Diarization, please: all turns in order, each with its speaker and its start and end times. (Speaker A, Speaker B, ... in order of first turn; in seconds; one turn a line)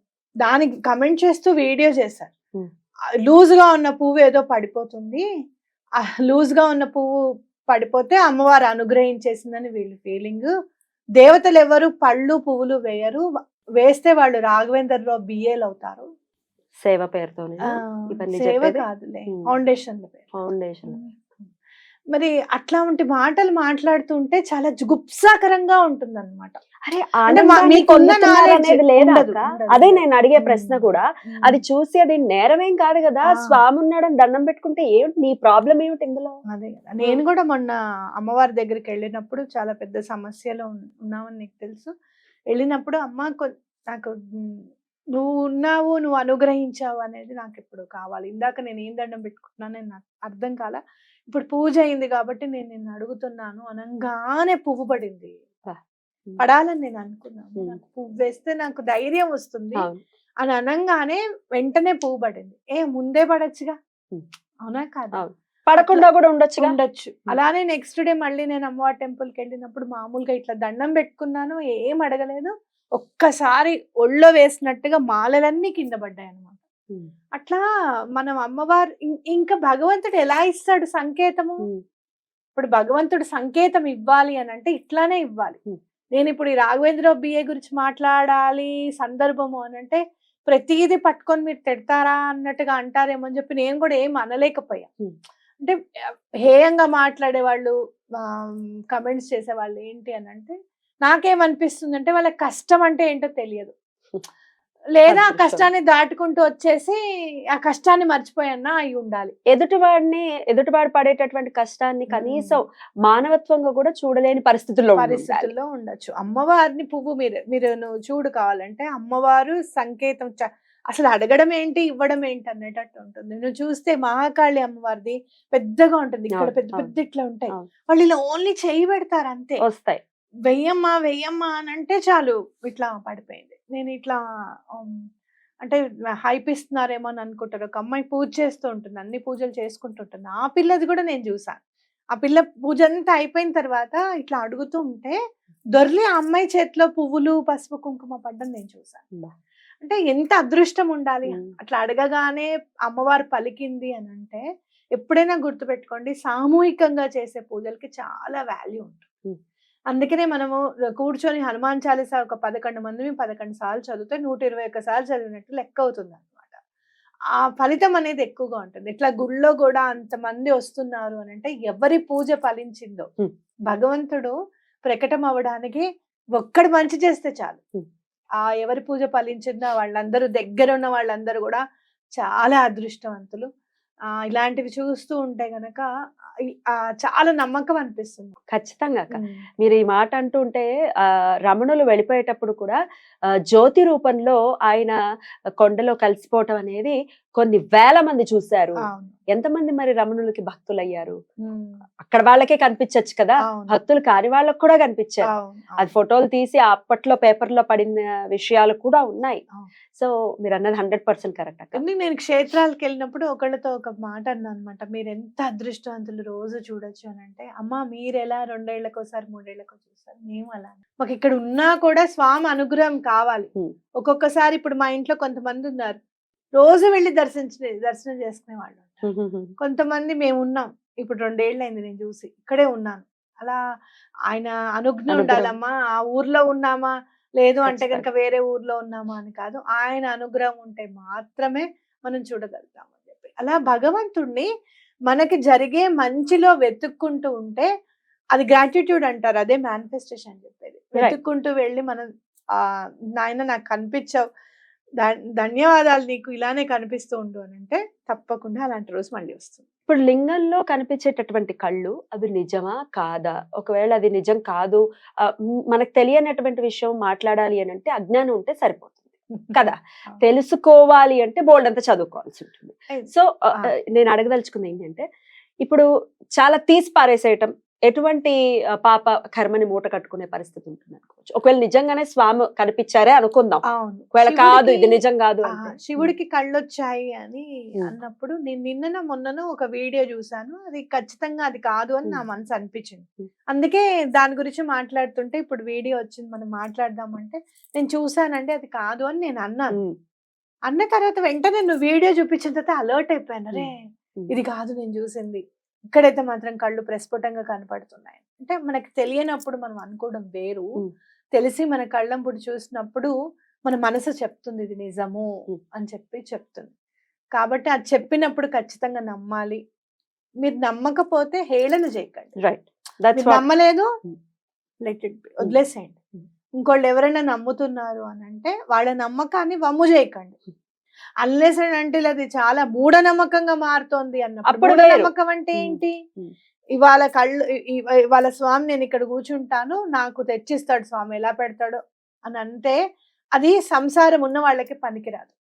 Speaker A: 0.5-2.3
Speaker A: 3.3-5.2
Speaker A: 6.0-7.1
Speaker A: 7.7-10.5
Speaker A: 11.2-13.2
Speaker A: 13.8-16.1
Speaker B: 16.8-19.5
Speaker A: 17.7-20.3
Speaker B: 20.4-21.0
Speaker A: 20.9-21.4
Speaker A: 22.1-26.6
Speaker B: 26.9-36.4
Speaker A: 27.3-31.6
Speaker A: 33.3-33.6
Speaker A: 36.5-41.9
Speaker A: 42.5-44.6
Speaker A: 45.2-50.8
Speaker A: 51.3-55.4
Speaker B: 55.7-56.4
Speaker A: 56.4-59.9
Speaker A: 60.4-63.8
Speaker A: 64.6-65.2
Speaker B: 65.1-66.8
Speaker A: 65.8-66.1
Speaker A: 66.6-76.6
Speaker A: 77.4-77.6
Speaker A: 78.2-81.7
Speaker A: 82.5-85.6
Speaker A: 86.2-94.9
Speaker A: 96.5-103.7
Speaker A: 105.0-107.0
Speaker B: 105.1-105.7
Speaker A: 107.6-109.3
Speaker B: 109.5-115.5
Speaker A: 112.1-112.6
Speaker A: 115.0-129.6
Speaker B: 126.3-126.9
Speaker B: 129.6-130.0
Speaker A: 130.5-134.2
Speaker A: 135.6-141.6
Speaker A: 142.2-145.2
Speaker A: 145.8-149.1
Speaker A: 149.8-154.4
Speaker A: 155.0-159.1
Speaker A: 159.9-166.6
Speaker A: 167.4-173.1
Speaker A: 173.7-174.3
Speaker A: 174.8-175.9
Speaker A: 176.4-177.6
Speaker A: 178.4-181.6
Speaker A: 182.2-183.5
Speaker A: 184.3-185.8
Speaker A: 186.5-188.4
Speaker B: 188.5-190.7
Speaker A: 189.1-189.4
Speaker B: 191.5-192.8
Speaker B: 193.5-195.0
Speaker B: 195.6-198.8
Speaker A: 198.9-199.2
Speaker B: 199.3-201.2
Speaker A: 201.4-201.8
Speaker B: 202.0-205.3
Speaker A: 203.5-203.8
Speaker A: 205.3-205.9
Speaker B: 205.8-209.4
Speaker B: 210.0-211.8
Speaker A: 211.8-226.0
Speaker A: 226.6-229.1
Speaker B: 229.0-229.5
Speaker A: 229.6-233.6
Speaker A: 234.3-244.5
Speaker B: 235.1-235.5
Speaker B: 237.7-238.1
Speaker A: 245.1-247.7
Speaker A: 248.4-252.1
Speaker A: 253.2-254.2
Speaker A: 255.0-259.6
Speaker B: 259.9-269.0
Speaker A: 269.3-270.2
Speaker B: 269.5-275.0
Speaker A: 272.9-273.7
Speaker B: 276.4-283.6
Speaker A: 283.7-285.0
Speaker B: 284.1-286.1
Speaker A: 285.5-299.8
Speaker A: 300.7-303.8
Speaker B: 303.5-304.3
Speaker A: 304.3-305.4
Speaker A: 305.9-310.7
Speaker A: 311.4-313.1
Speaker A: 313.7-316.7
Speaker A: 317.4-319.6
Speaker A: 320.4-322.4
Speaker B: 322.4-323.4
Speaker A: 323.1-323.9
Speaker A: 324.9-326.0
Speaker A: 326.6-330.4
Speaker A: 331.2-335.9
Speaker B: 334.5-336.3
Speaker A: 336.8-342.8
Speaker A: 343.4-345.4